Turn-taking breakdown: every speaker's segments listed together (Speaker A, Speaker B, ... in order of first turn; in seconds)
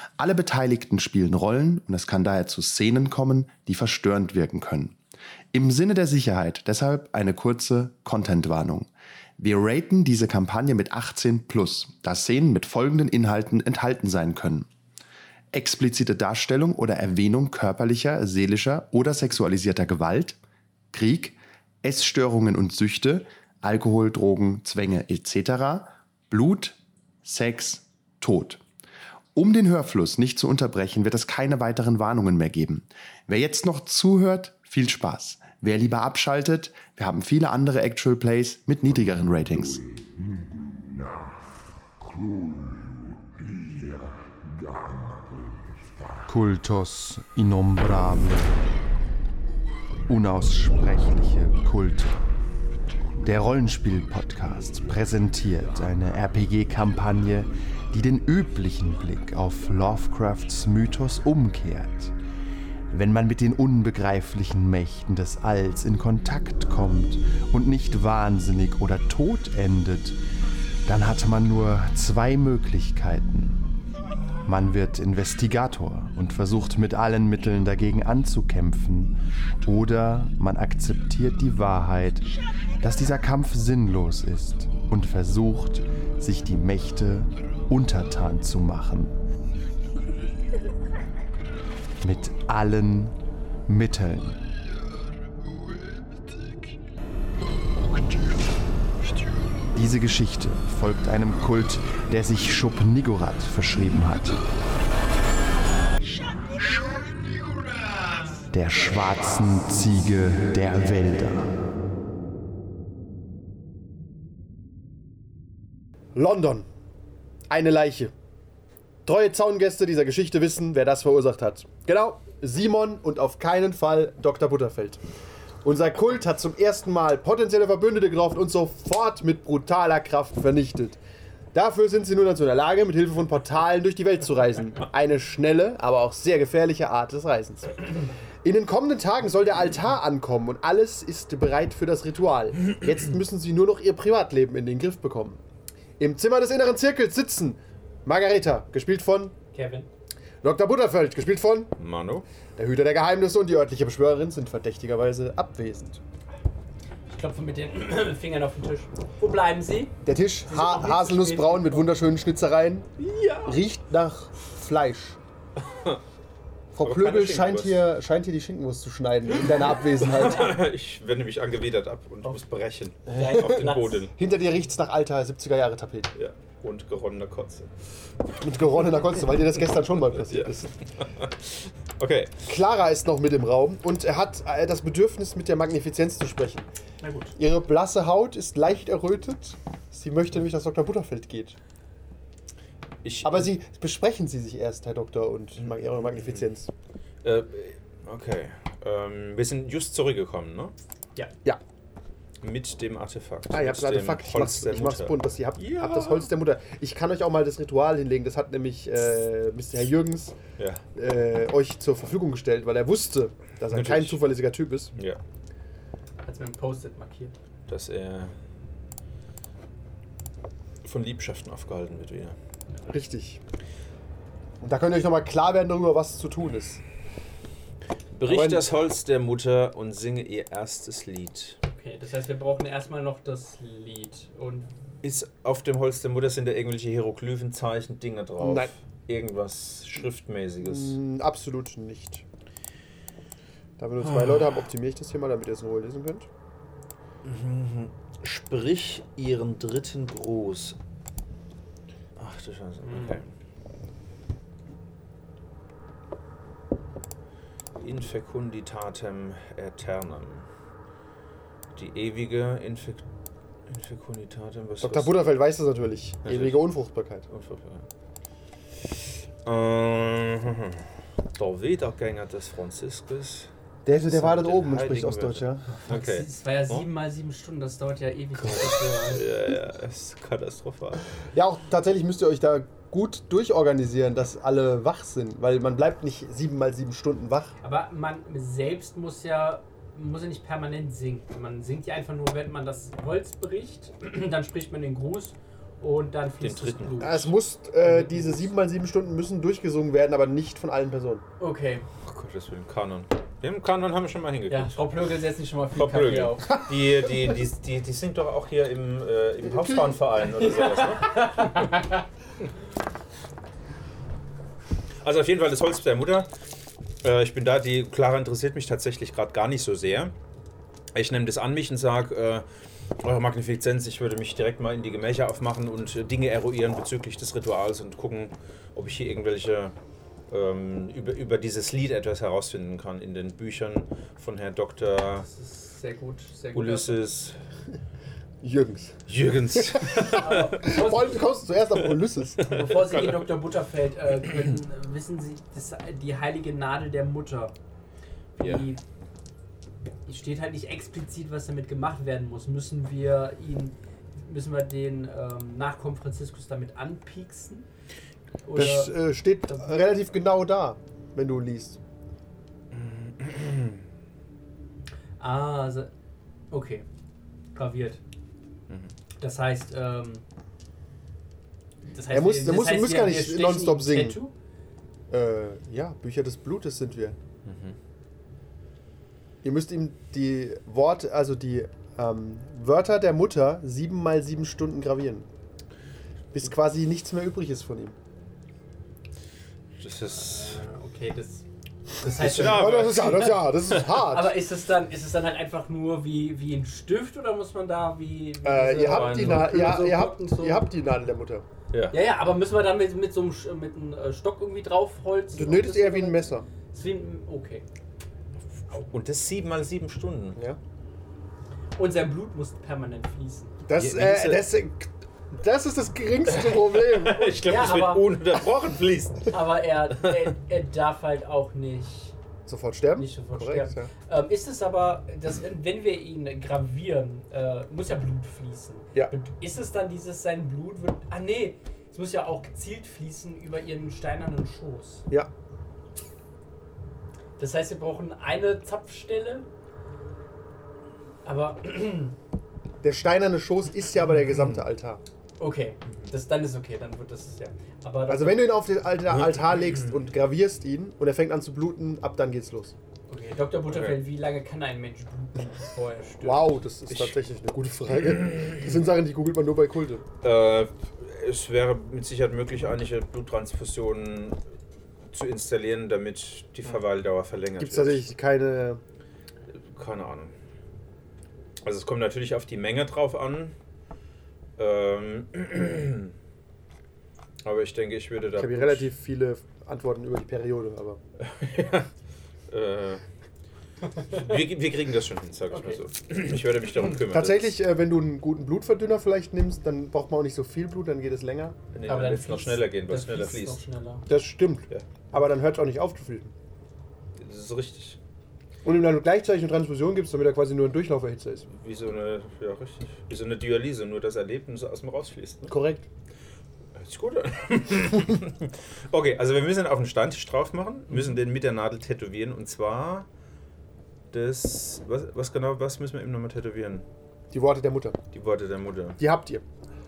Speaker A: 0.2-5.0, 5.5-14.7, 15.5-20.4, 20.9-28.6, 29.4-39.9, 58.0-58.3, 58.9-61.8, 63.5-64.2, 66.5-66.9, 67.5-69.4, 71.3-73.5, 74.5-79.0, 79.6-82.2, 82.8-89.1, 92.1-92.9, 93.7-94.2, 100.2-101.3, 103.2-104.3, 108.5-111.3
Speaker B: 46.3-48.6, 50.1-52.2, 53.2-62.1, 62.9-70.2, 70.9-72.8, 74.5-75.6, 76.8-79.1, 79.6-82.2, 82.8-85.4, 86.9-89.1, 92.0-93.1, 93.7-94.4, 99.8-104.4, 108.5-111.4
Speaker C: 116.2-116.7, 117.5-118.1, 119.0-125.0, 125.6-131.0, 131.5-145.4, 146.0-149.3, 150.4-151.7, 152.6-156.0, 160.0-162.9, 163.4-165.2, 166.7-170.6, 173.1-176.1, 178.4-180.7, 182.4-186.7, 187.4-191.6, 193.2-196.7, 203.5-210.4, 210.9-214.9, 222.9-223.4, 224.6-226.8, 228.3-228.7, 238.4-238.7, 240.6-242.2, 243.8-246.3, 264.8-267.3, 273.9-275.7, 281.3-287.6, 297.0-301.2, 309.4-310.0, 338.4-339.0, 339.6-342.5, 358.6-361.8, 372.1-374.2, 375.1-377.2, 379.4-385.3, 386.3-388.0, 392.2-394.3, 398.4-401.4, 405.3-406.5, 413.7-417.4, 422.5-423.9, 442.8-445.0, 448.1-452.8, 456.2-460.0, 467.6-468.8, 478.4-481.0, 486.9-491.6, 494.1-496.3, 498.6-501.5, 505.5-505.9, 517.3-518.0, 519.0-519.4
Speaker D: 149.5-149.9, 157.1-161.9, 163.0-163.6, 173.1-174.1, 187.0-187.3, 216.2-217.3, 231.7-234.7, 252.8-253.2, 275.8-279.3, 287.6-298.5, 301.4-301.9, 304.5-306.6, 310.4-312.0, 335.2-337.0, 340.0-341.2, 342.4-347.5, 348.4-348.8, 350.1-357.7, 358.4-359.9, 365.2-365.9, 366.5-366.9, 367.5-368.0, 369.2-370.2, 371.9-374.3, 390.1-391.4, 392.0-400.7, 401.9-407.6, 411.8-413.6, 417.4-418.1, 419.3-422.1, 423.0-435.1, 437.4-439.5, 441.2-442.2, 445.4-448.5, 453.1-456.6, 485.5-485.8, 491.9-494.1
Speaker E: 151.8-152.3, 165.6-166.0, 166.8-167.9, 170.0-174.1, 176.2-177.7, 180.1-182.4, 193.0-193.5, 195.6-196.5, 197.2-200.7, 202.4-206.3, 213.7-214.2, 217.7-218.3, 220.8-222.4, 228.1-231.6, 235.0-241.0, 244.0-244.7, 247.2-250.8, 252.2-253.3, 257.8-260.5, 261.8-263.1, 263.7-265.2, 266.2-266.7, 267.3-267.9, 268.8-273.5, 274.1-276.9, 278.4-281.1, 296.4-297.1, 302.0-304.9, 305.8-311.6, 315.0-316.3, 317.0-320.1, 320.9-322.4, 323.0-329.7, 330.3-335.3, 336.5-337.4, 339.1-340.9, 342.4-343.1, 362.7-363.8, 377.4-377.8, 389.8-390.6, 392.1-393.8, 398.9-399.5, 401.7-402.0, 408.7-410.4, 413.7-414.4, 416.3-419.4, 449.1-449.9, 453.7-454.0, 456.9-457.1, 460.2-464.4, 465.1-468.1, 469.5-470.3, 471.6-473.5, 474.6-476.1, 477.4-478.9, 481.2-481.9, 482.5-483.0, 484.1-487.5, 491.7-493.6, 497.2-498.0, 501.5-505.6, 506.8-513.1, 514.1-516.9, 518.1-519.0